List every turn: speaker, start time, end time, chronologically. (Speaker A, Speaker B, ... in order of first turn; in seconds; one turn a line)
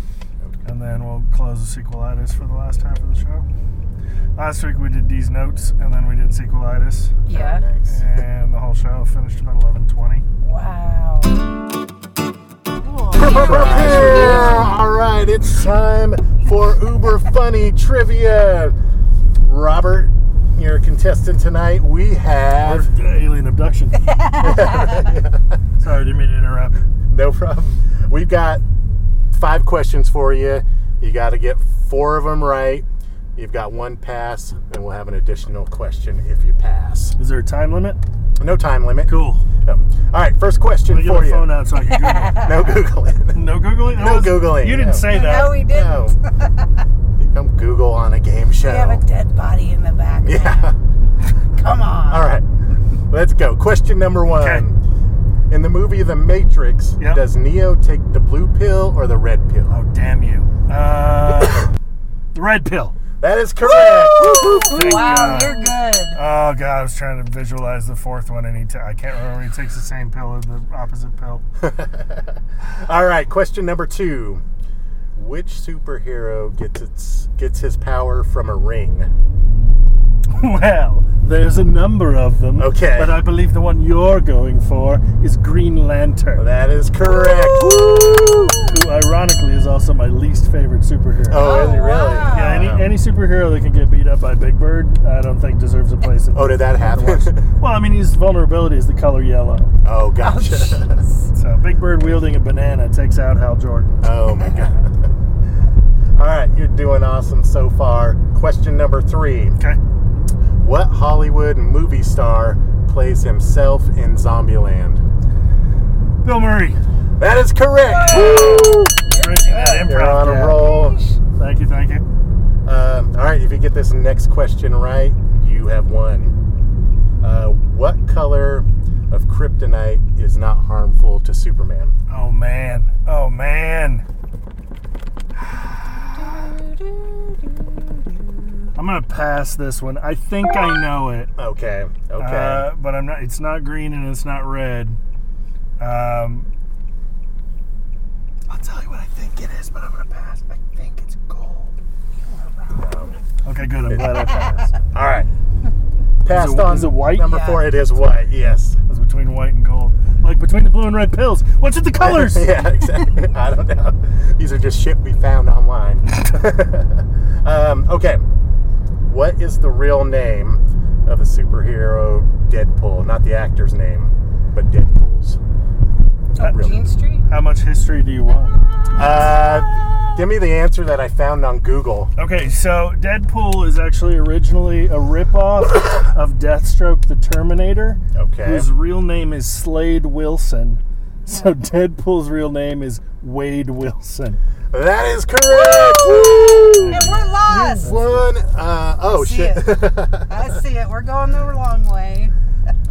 Speaker A: 0.7-3.5
Speaker A: 4.4-7.2
Speaker B: 7.3-7.7
Speaker C: 7.3-8.0
Speaker A: 7.9-10.2
Speaker B: 10.4-11.4
Speaker B: 12.9-14.6
Speaker A: 13.0-14.6
Speaker C: 13.2-18.8
Speaker C: 19.4-22.9
Speaker A: 22.6-24.3
Speaker B: 24.1-25.1
Speaker C: 24.4-25.4
Speaker A: 25.8-26.8
Speaker C: 27.1-28.6
Speaker C: 29.3-37.2
Speaker A: 37.2-38.0
Speaker C: 38.4-39.1
Speaker A: 39.1-39.4
Speaker C: 39.6-41.5
Speaker A: 40.9-42.6
Speaker B: 41.8-42.6
Speaker C: 42.4-46.1
Speaker A: 43.3-45.6
Speaker B: 45.0-46.8
Speaker C: 47.2-49.0
Speaker B: 48.6-50.8
Speaker C: 50.2-50.8
Speaker B: 51.5-52.3
Speaker C: 52.1-52.5
Speaker C: 53.1-54.8
Speaker A: 54.4-54.7
Speaker C: 55.5-59.8
Speaker A: 59.7-61.7
Speaker A: 62.3-63.0
Speaker C: 63.2-65.2
Speaker B: 63.6-66.2
Speaker A: 64.7-71.4
Speaker C: 71.6-74.4
Speaker C: 75.2-79.1
Speaker A: 80.3-86.5
Speaker C: 82.6-83.2
Speaker C: 86.4-88.7
Speaker B: 87.3-88.5
Speaker A: 88.6-91.5
Speaker C: 91.3-93.0
Speaker B: 91.3-92.7
Speaker A: 92.3-99.7
Speaker C: 96.3-97.5
Speaker C: 99.8-101.0
Speaker B: 100.2-101.3
Speaker A: 101.3-104.0
Speaker C: 104.0-105.0
Speaker B: 104.4-104.8
Speaker C: 106.2-109.6
Speaker C: 110.6-115.0
Speaker A: 116.2-116.8
Speaker C: 117.2-118.9
Speaker B: 117.8-121.2
Speaker A: 118.0-120.7
Speaker C: 119.8-121.0
Speaker A: 121.3-122.0
Speaker C: 122.7-126.4
Speaker C: 127.2-131.9
Speaker A: 132.1-134.1
Speaker B: 136.1-138.7
Speaker A: 138.8-141.3
Speaker C: 141.4-142.7
Speaker A: 142.2-145.0
Speaker A: 145.8-146.5
Speaker A: 148.5-151.7
Speaker B: 152.2-153.0
Speaker C: 152.8-153.2
Speaker A: 153.4-154.8
Speaker C: 153.9-155.3
Speaker C: 156.2-158.8
Speaker A: 156.3-157.3
Speaker B: 157.2-157.7
Speaker A: 158.9-162.6
Speaker C: 162.0-168.2
Speaker C: 169.1-175.4
Speaker C: 176.4-176.9
Speaker B: 176.4-177.2
Speaker A: 177.3-178.6
Speaker C: 178.9-182.1
Speaker A: 182.2-194.4
Speaker C: 188.1-188.7
Speaker C: 194.7-200.4
Speaker B: 195.5-197.9
Speaker A: 196.7-198.3
Speaker B: 199.0-202.3